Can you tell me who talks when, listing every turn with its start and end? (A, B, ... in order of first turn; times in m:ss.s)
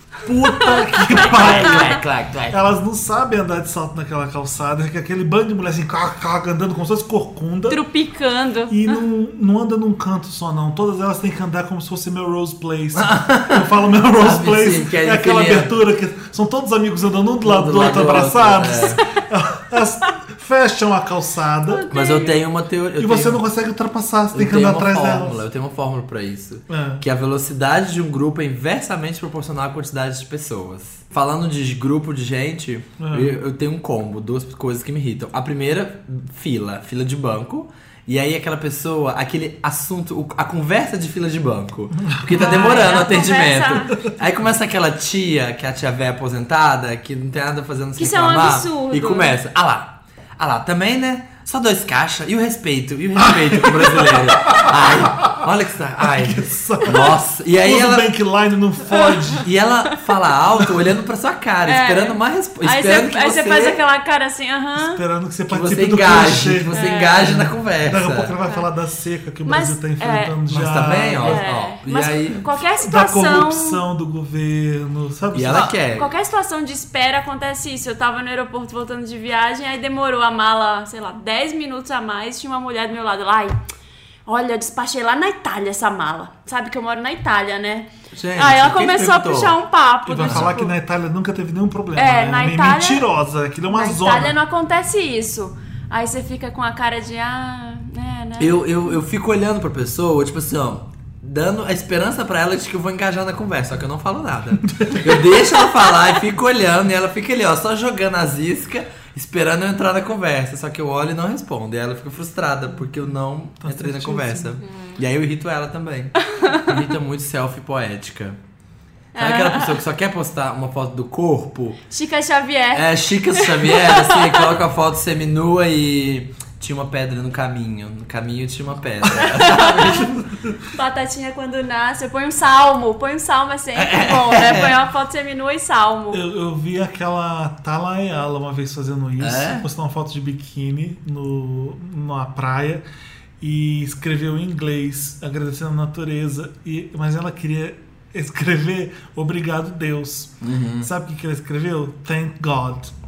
0:00.2-0:07.8 A
0:00.6-0:02.0 B
0:01.1-0:02.6 C
0:07.7-0:09.0 B
0:08.7-0:21.9 A
0:12.9-0:15.7 C
0:17.4-0:19.0 C
0:21.7-0:22.4 B
0:21.9-0:23.4 C
0:23.0-0:25.4 A
0:24.3-0:58.1 C
0:26.7-0:27.0 A
0:33.0-0:33.4 A
0:42.1-0:42.9 A
0:42.3-0:44.0 B
0:48.0-0:49.3 B
0:53.2-0:54.8 A
0:56.0-0:59.5 A
0:59.4-1:03.8 C
1:01.6-1:05.0 B
1:04.8-1:11.4 A
1:05.5-1:08.4 C
1:06.7-1:07.4 B
1:09.4-1:10.4 B
1:10.5-1:12.4 C
1:11.2-1:13.8 B
1:12.8-1:15.7 A
1:15.3-1:16.1 C
1:15.8-1:23.6 B
1:24.3-1:30.7 B
1:28.1-1:29.6 C
1:30.1-1:34.4 A
1:30.2-1:30.5 C
1:31.9-1:33.1 B
1:33.7-1:38.9 B
1:38.4-1:58.4 C
1:53.6-1:54.6 A
1:54.6-1:55.0 B
1:56.3-1:56.7 B
1:59.1-1:59.8 B
1:59.2-2:01.8 C
2:01.9-2:04.5 B
2:02.7-2:10.2 C
2:09.2-2:10.1 B
2:10.7-2:16.2 B
2:13.8-2:14.8 C
2:16.1-2:22.8 A
2:19.2-2:19.6 C
2:23.4-2:32.9 A
2:30.4-2:30.9 C